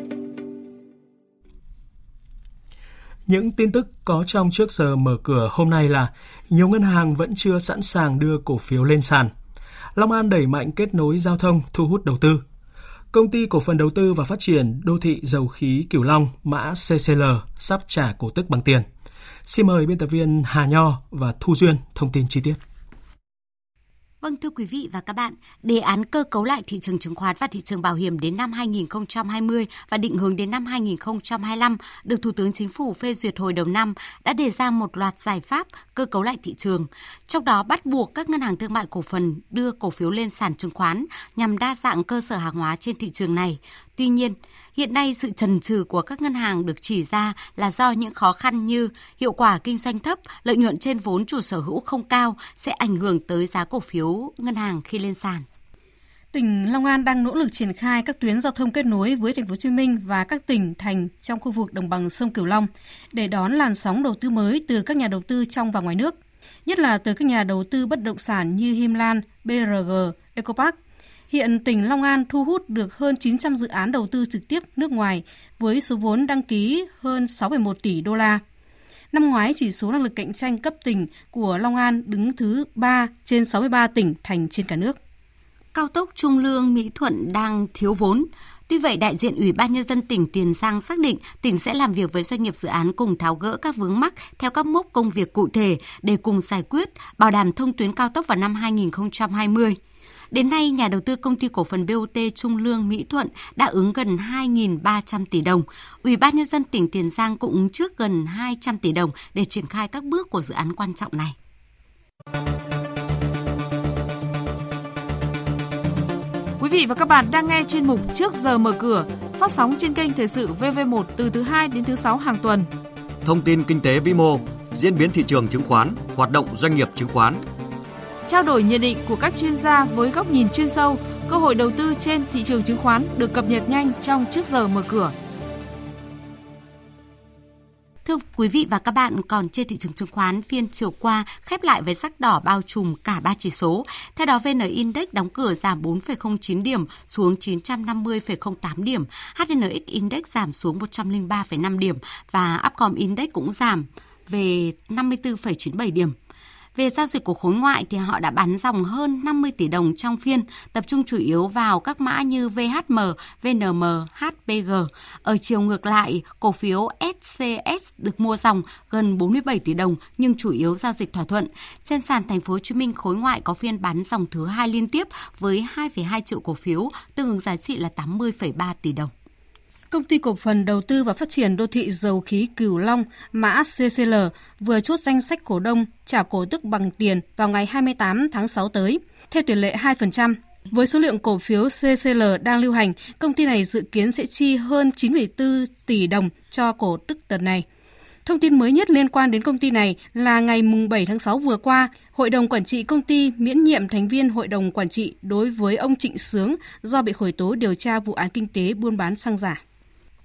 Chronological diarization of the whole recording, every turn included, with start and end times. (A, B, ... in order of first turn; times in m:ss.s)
0:03.3-0:09.3 A
0:10.0-0:12.4 A
0:13.1-0:18.9 A
0:19.5-0:22.6 A
0:24.2-0:55.4 B
0:56.3-1:10.8 C
1:11.3-1:18.4 C
1:19.1-1:25.0 C
1:25.7-1:39.8 B
1:40.3-1:51.4 B
1:56.6-2:02.7 D
2:03.2-2:07.4 E
2:08.3-2:15.1 D
2:18.0-2:36.2 B
2:36.8-2:59.1 B
2:59.9-3:17.6 C
3:18.3-3:29.6 C